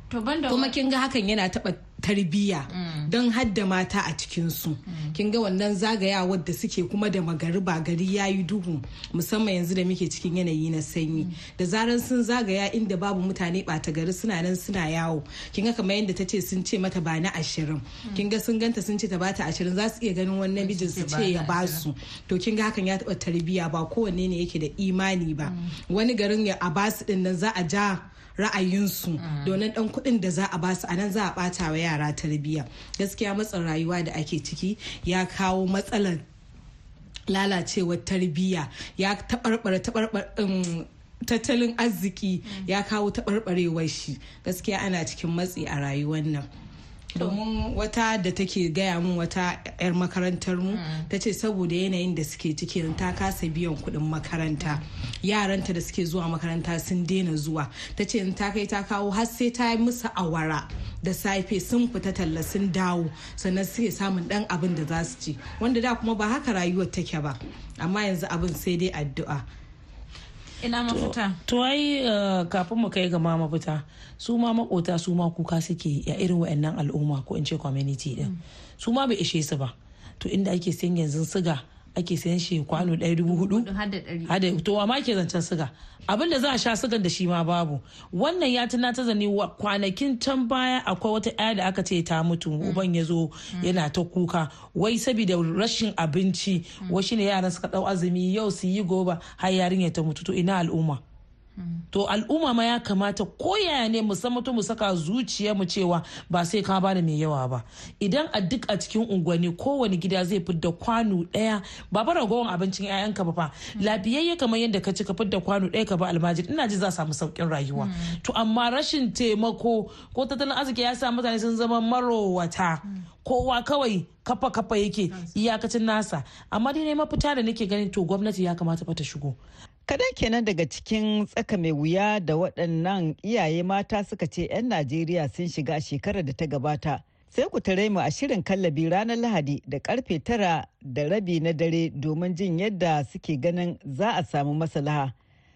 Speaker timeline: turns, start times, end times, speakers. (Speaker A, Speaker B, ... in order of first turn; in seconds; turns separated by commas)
Speaker A: 0.1-0.8, Speaker B: 0.5-36.2, Speaker A: 2.7-3.1, Speaker A: 4.9-5.2, Speaker A: 18.0-18.3, Speaker A: 20.6-21.8, Speaker A: 25.4-25.7, Speaker A: 29.2-29.6, Speaker B: 37.3-46.5, Speaker B: 47.1-69.4, Speaker A: 50.7-51.0, Speaker A: 70.6-71.4, Speaker C: 70.9-83.7, Speaker A: 82.8-84.3, Speaker C: 84.3-101.0, Speaker A: 93.5-93.8, Speaker A: 101.6-101.8, Speaker C: 101.9-129.4, Speaker A: 117.7-118.2, Speaker D: 129.9-145.1